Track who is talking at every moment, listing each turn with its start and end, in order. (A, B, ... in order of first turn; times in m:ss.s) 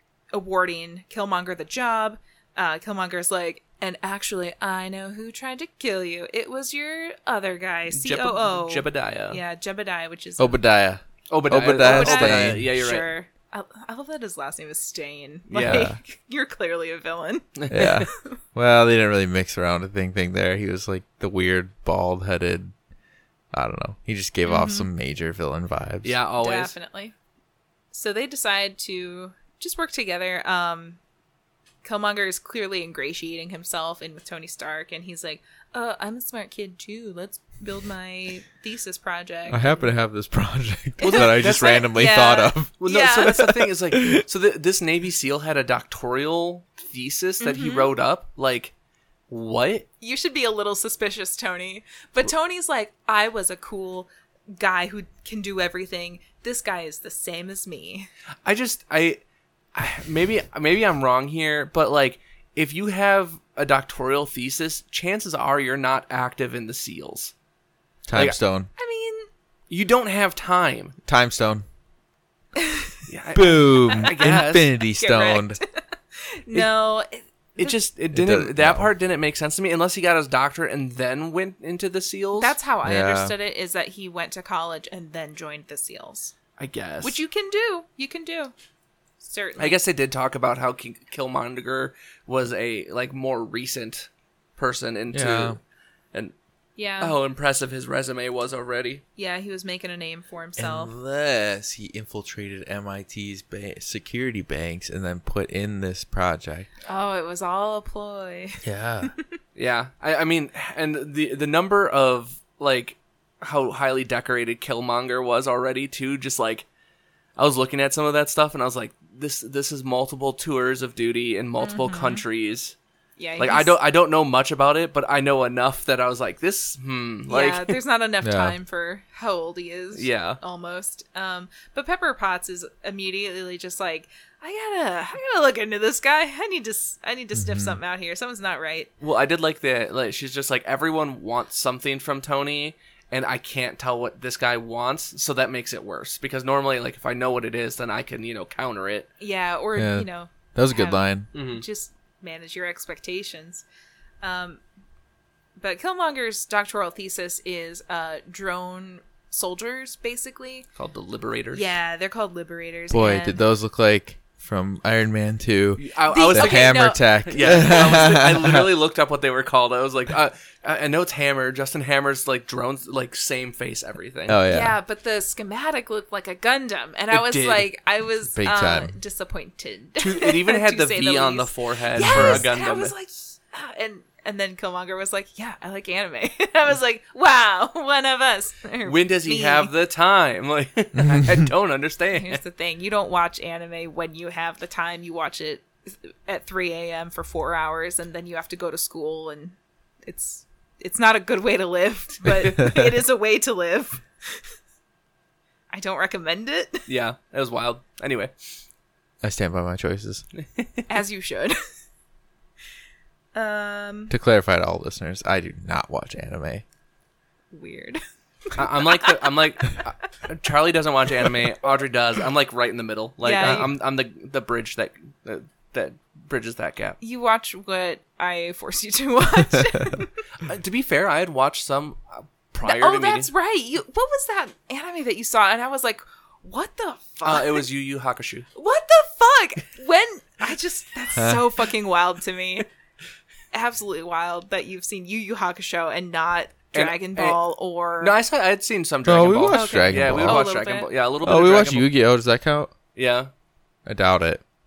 0:00.3-0:10.6 A
0:07.9-0:09.4 B
0:10.4-0:12.7 C
0:11.3-0:13.1 B
0:11.8-0:18.4 A
0:15.5-0:15.9 B
0:15.6-0:16.0 C
0:17.6-0:18.1 B
0:17.7-0:22.7 C
0:23.5-0:26.2 C
0:24.4-0:24.9 A
0:26.0-0:26.7 B
0:26.4-0:27.1 A
0:27.9-0:31.0 A
0:31.8-0:39.9 A
0:39.5-0:42.7 C
0:41.0-0:43.7 A
0:41.0-0:41.9 B
0:42.8-0:48.7 B
0:43.9-0:44.2 C
0:47.4-0:47.9 A
0:49.3-0:49.9 B
0:50.0-0:58.1 A
0:58.4-0:59.2 B
0:59.7-1:07.3 B
1:08.1-1:08.7 C
1:08.8-1:09.3 A
1:09.7-1:11.0 B
1:11.1-1:11.6 C
1:12.6-1:13.0 A
1:13.1-1:14.7 B
1:13.3-1:15.6 C
1:13.9-1:15.8 A
1:16.4-1:17.8 A
1:17.6-1:22.6 B
1:18.1-1:18.9 C
1:22.4-1:26.3 A
1:22.8-1:23.3 C
1:26.6-1:27.2 B
1:27.0-1:28.5 A
1:29.2-1:29.8 A
1:29.6-1:35.6 B
1:35.1-1:35.6 C
1:36.8-1:37.2 A
1:37.0-1:39.0 B
1:39.2-1:40.9 A
1:40.6-1:46.7 C
1:46.9-1:49.4 A
1:48.6-1:49.1 C
1:49.6-1:56.6 B
1:57.4-2:02.8 B
2:01.6-2:02.2 A
2:03.2-2:03.8 A
2:03.4-2:07.8 B
2:07.3-2:18.9 A
2:08.2-2:08.6 C
2:10.0-2:10.4 B
2:17.4-2:17.8 C
2:19.0-2:29.1 B
2:29.2-2:33.6 A
2:29.8-2:31.3 C
2:31.3-2:31.6 B
2:34.2-2:34.6 A
2:35.6-2:40.7 A
2:40.8-2:41.7 B
2:41.5-2:43.4 A
2:42.9-2:48.7 C
2:45.8-2:54.4 B
2:46.1-2:48.1 A
2:54.3-2:54.8 C
2:54.5-3:09.7 A
2:57.1-2:57.7 B
2:58.3-2:59.0 C
3:00.0-3:02.9 B
3:02.0-3:02.5 C
3:08.8-3:12.4 B
3:11.0-3:11.4 C
3:12.1-3:24.5 A
3:25.7-3:26.9 A
3:26.9-3:28.3 B
3:29.2-3:30.2 C
3:30.4-3:30.9 B
3:30.9-3:31.6 A
3:33.3-3:34.2 A
3:34.1-3:36.6 C
3:37.5-3:39.3 A
3:38.6-3:47.0 B
3:43.2-3:43.8 A
3:47.0-3:50.1 A
3:50.4-3:53.3 B
3:52.6-3:57.7 A
3:57.2-3:58.5 B
3:58.6-4:02.7 A
4:01.2-4:01.4 C
4:03.5-4:08.2 A
4:06.7-4:07.4 B
4:08.0-4:11.9 B
4:09.0-4:10.4 C
4:09.5-4:10.9 A
4:11.2-4:12.7 C
4:13.0-4:13.3 B
4:13.9-4:14.4 C